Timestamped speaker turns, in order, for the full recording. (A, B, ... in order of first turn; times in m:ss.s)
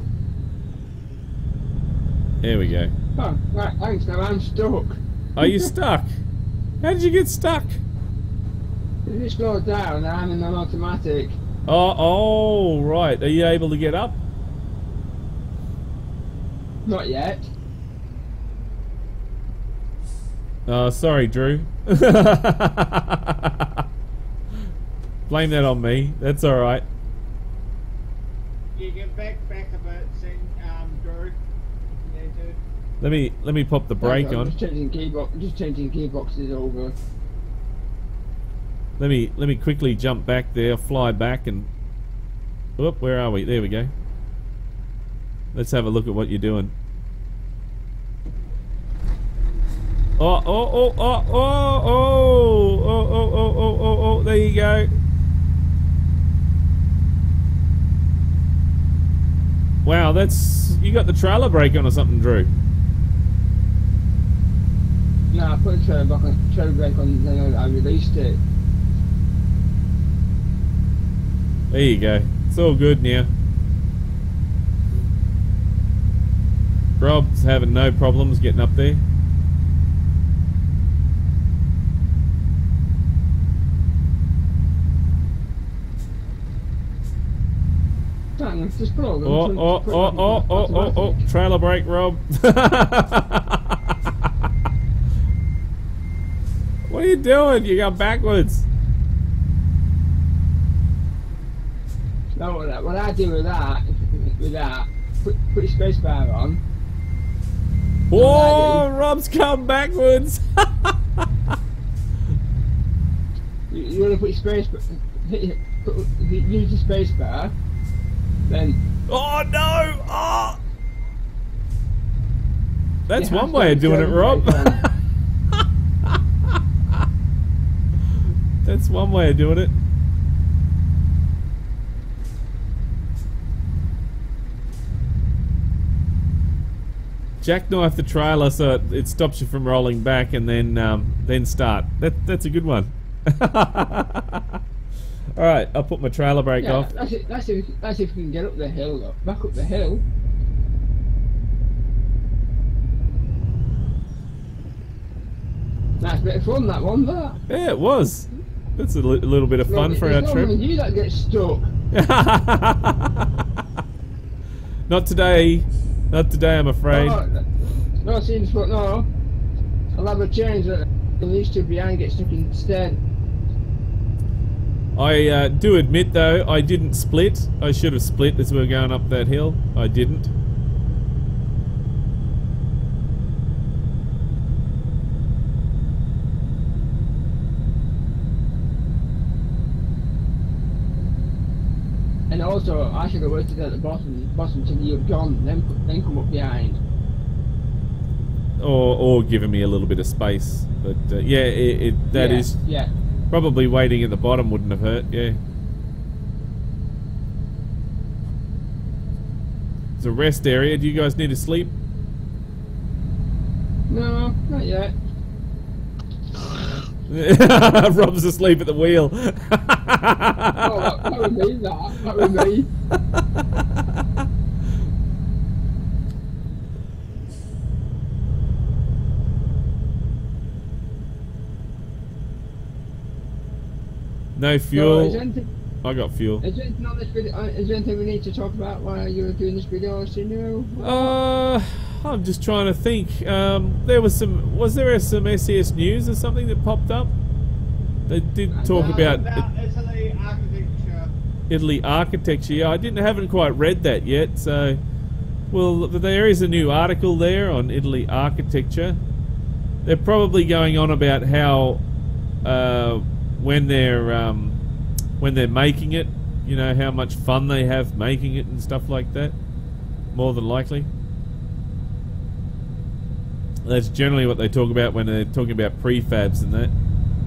0:02.4-0:02.9 A
0:03.2-0:05.7 B
0:05.4-0:06.1 A
0:06.8-0:07.8 A
0:09.0-0:11.4 B
0:11.7-0:14.2 A
0:16.8-0:17.5 B
0:20.7-0:23.8 A
0:25.3-0:26.8 A
0:28.8-0:31.4 C
0:32.0-0:32.6 C
0:33.0-0:34.6 A
0:34.0-0:37.0 B
0:39.0-0:41.7 A
0:42.8-0:43.9 A
0:45.5-0:46.7 A
0:50.2-0:54.9 A
0:59.8-1:02.5 A
1:05.3-1:08.4 B
1:11.7-1:13.3 A
1:17.0-1:19.0 A
1:28.4-1:31.2 B
1:29.2-1:33.8 A
1:36.9-1:38.7 A
1:42.4-1:46.6 B
1:48.1-1:51.2 A
1:48.1-1:48.8 B
1:53.7-1:57.5 B
1:58.4-1:58.8 B
1:59.1-2:00.6 A
2:03.1-2:04.9 A
2:03.1-2:04.8 B
2:05.5-2:06.6 A
2:08.6-2:09.8 A
2:17.4-2:24.6 A
2:25.3-2:26.9 A
2:26.6-2:30.0 B
2:36.0-2:37.4 B
2:37.5-2:40.6 A
2:39.7-2:41.6 B
2:41.9-2:43.1 A
2:44.9-2:47.2 A
2:46.9-2:47.5 B
2:48.0-2:49.1 B
2:49.9-2:53.0 B
2:55.0-3:00.3 A
3:12.3-3:16.8 B
3:18.6-3:22.6 A
3:22.1-3:22.9 B
3:23.3-3:25.4 A
3:30.0-3:31.8 A
3:33.9-3:34.9 B
3:37.1-3:41.2 A
3:40.6-3:42.7 B
3:42.2-3:42.5 A
3:43.1-3:43.6 A
3:54.4-3:55.2 A
3:54.7-3:55.5 B
3:55.8-3:56.4 A
3:56.4-4:01.2 B
4:00.8-4:07.1 A
4:08.1-4:09.4 A
4:08.5-4:09.2 B
4:08.7-4:11.1 C
4:11.5-4:14.8 A
4:15.5-4:19.0 A
4:19.8-4:21.8 A
4:22.4-4:24.6 A
4:25.2-4:29.4 A
4:30.1-4:30.9 A
4:33.6-4:36.7 A